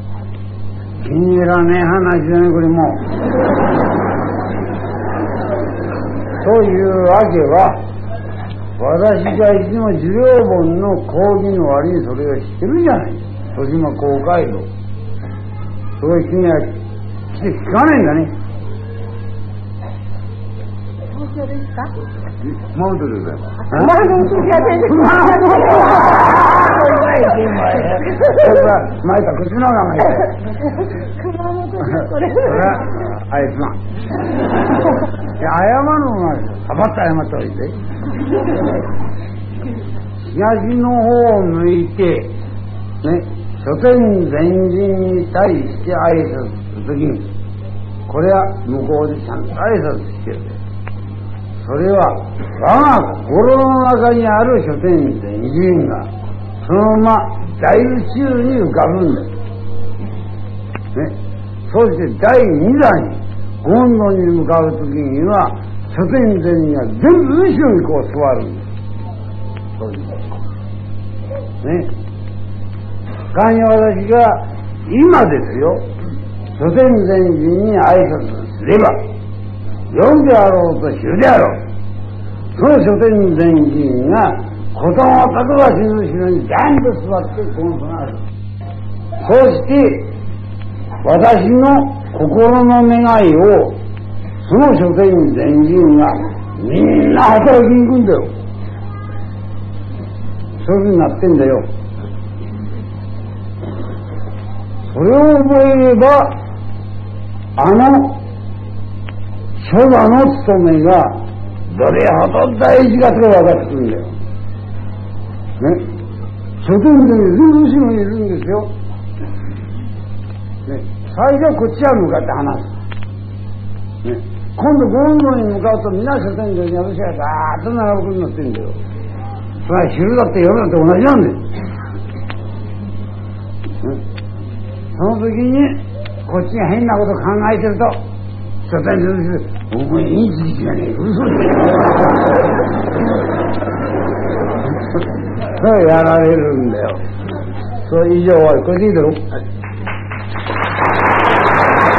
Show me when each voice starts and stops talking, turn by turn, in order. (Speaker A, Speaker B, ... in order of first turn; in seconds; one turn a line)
Speaker A: 1.0-3.1
Speaker A: 6.4-7.8
Speaker A: 8.8-14.7
Speaker A: 16.0-16.7
Speaker A: 17.3-18.3
Speaker B: 21.2-21.9
Speaker A: 22.7-24.0
Speaker B: 23.7-27.9
Speaker A: 24.8-26.1
Speaker A: 26.9-30.4
Speaker B: 31.1-32.7
Speaker A: 32.3-33.8
Speaker A: 35.4-37.8
Speaker A: 40.3-42.4
Speaker A: 43.0-47.3
Speaker A: 48.1-50.6
Speaker A: 51.6-56.1
Speaker A: 56.6-59.3
Speaker A: 61.7-68.7
Speaker A: 69.8-70.3
Speaker A: 71.6-71.9
Speaker A: 73.3-75.8
Speaker A: 76.5-79.0
Speaker A: 79.9-81.6
Speaker A: 82.5-88.2
Speaker A: 89.2-90.1
Speaker A: 91.0-93.8
Speaker A: 94.4-98.3
Speaker A: 100.6-101.7
Speaker A: 104.9-106.4
Speaker A: 107.6-108.2
Speaker A: 109.6-114.1
Speaker A: 116.6-118.7
Speaker A: 120.7-122.7
Speaker A: 124.0-128.8
Speaker A: 129.6-131.5
Speaker A: 134.9-138.0
Speaker A: 138.6-142.2
Speaker A: 145.6-147.0
Speaker A: 147.8-149.3